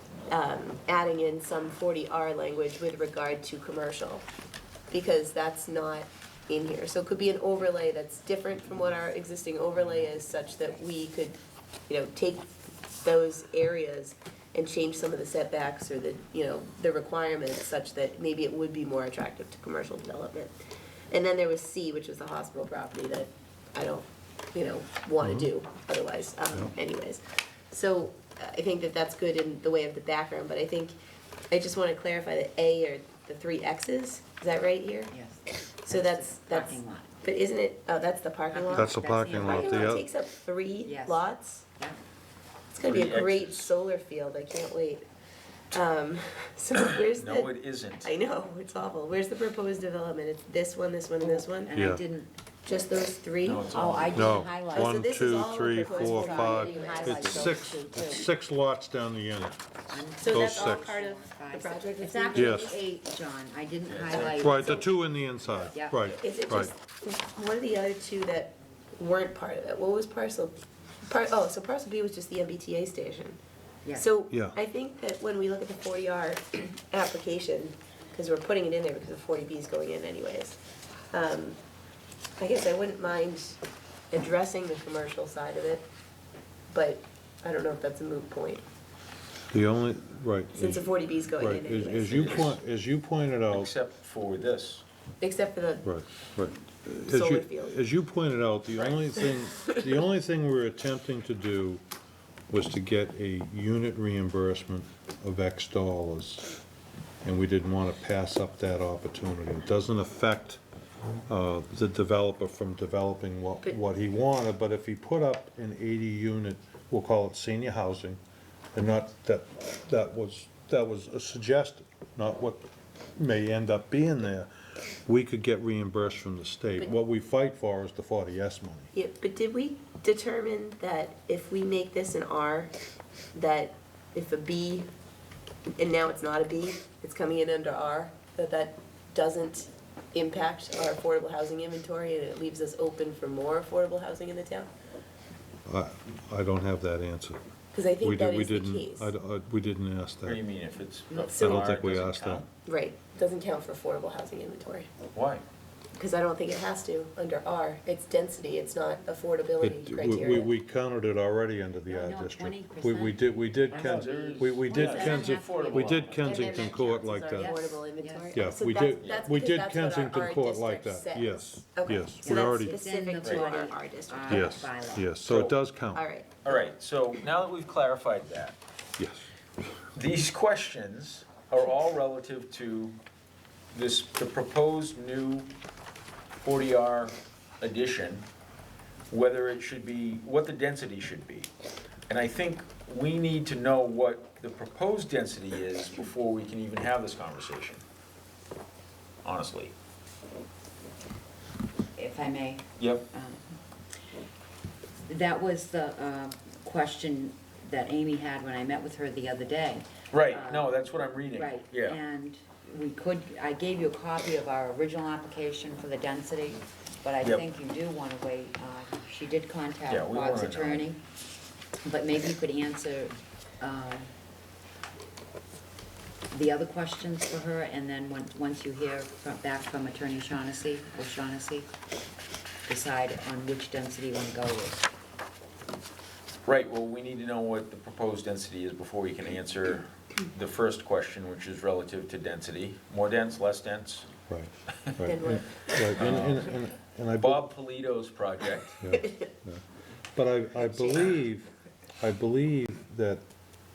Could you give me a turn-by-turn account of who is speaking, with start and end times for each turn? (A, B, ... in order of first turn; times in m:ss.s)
0:00.3-0:04.2 A
0:04.9-0:11.4 A
0:11.9-0:20.5 A
0:21.1-0:30.9 A
0:25.2-0:25.5 B
0:31.5-0:35.1 A
0:35.1-0:37.1 C
0:35.8-0:41.7 A
0:38.5-0:40.0 C
0:38.7-0:40.1 B
0:40.8-0:42.0 C
0:42.7-0:45.0 A
0:42.8-0:43.7 D
0:45.7-0:51.7 A
0:46.7-0:48.1 D
0:51.2-0:52.3 C
0:51.7-0:52.0 B
0:52.6-0:54.1 A
0:53.4-0:54.5 D
0:53.7-0:58.2 C
0:54.1-1:01.0 B
0:54.7-0:57.7 A
0:59.9-1:04.9 C
1:00.2-1:02.8 A
1:02.3-1:02.8 B
1:03.9-1:04.8 D
1:04.3-1:06.7 B
1:05.7-1:06.0 C
1:06.2-1:10.5 A
1:11.0-1:13.4 A
1:13.9-1:20.6 A
1:14.3-1:14.6 B
1:21.1-1:21.6 A
1:22.4-1:23.6 A
1:24.1-1:25.8 A
1:26.7-1:28.6 A
1:29.5-1:33.7 B
1:30.5-1:32.5 A
1:32.1-1:32.6 D
1:33.5-1:34.8 D
1:35.2-1:35.9 A
1:35.8-1:41.8 B
1:37.1-1:37.7 A
1:42.5-1:46.6 B
1:47.2-1:50.6 B
1:51.3-1:58.2 B
1:58.7-2:04.5 B
2:05.0-2:08.9 B
2:08.9-2:12.7 A
2:13.3-2:14.9 A
2:15.8-2:24.7 A
2:25.7-2:27.4 B
2:27.7-2:29.1 A
2:28.0-2:30.4 B
2:30.2-2:32.5 D
2:31.1-2:31.4 C
2:31.4-2:31.6 A
2:31.4-2:32.4 B
2:32.6-2:34.9 A
2:35.1-2:35.4 D
2:35.9-2:40.5 A
2:39.6-2:47.6 B
2:41.9-2:48.4 C
2:43.7-2:46.5 D
2:46.3-2:54.7 A
2:48.3-2:52.8 B
2:52.2-2:55.1 C
2:53.2-2:53.6 D
2:54.3-2:56.0 B
2:55.2-2:55.5 D
2:55.9-2:56.6 A
2:56.4-2:58.6 D
2:59.0-2:59.3 B
2:59.9-3:03.0 D
3:03.7-3:05.5 D
3:06.4-3:08.2 D
3:09.1-3:11.5 D
3:12.1-3:17.8 D
3:19.2-3:19.7 D
3:22.0-3:23.6 C
3:22.8-3:23.0 D
3:25.0-3:30.7 C
3:30.1-3:32.0 D
3:31.3-3:41.0 C
3:39.9-3:40.9 D
3:41.8-3:44.1 C
3:46.3-3:51.7 C
3:52.7-3:54.9 C
3:56.4-4:04.1 D
4:04.3-4:07.4 B
4:05.0-4:06.1 A
4:05.9-4:06.5 D
4:07.2-4:08.8 D
4:08.8-4:09.6 B
4:09.0-4:09.3 A
4:10.1-4:13.2 B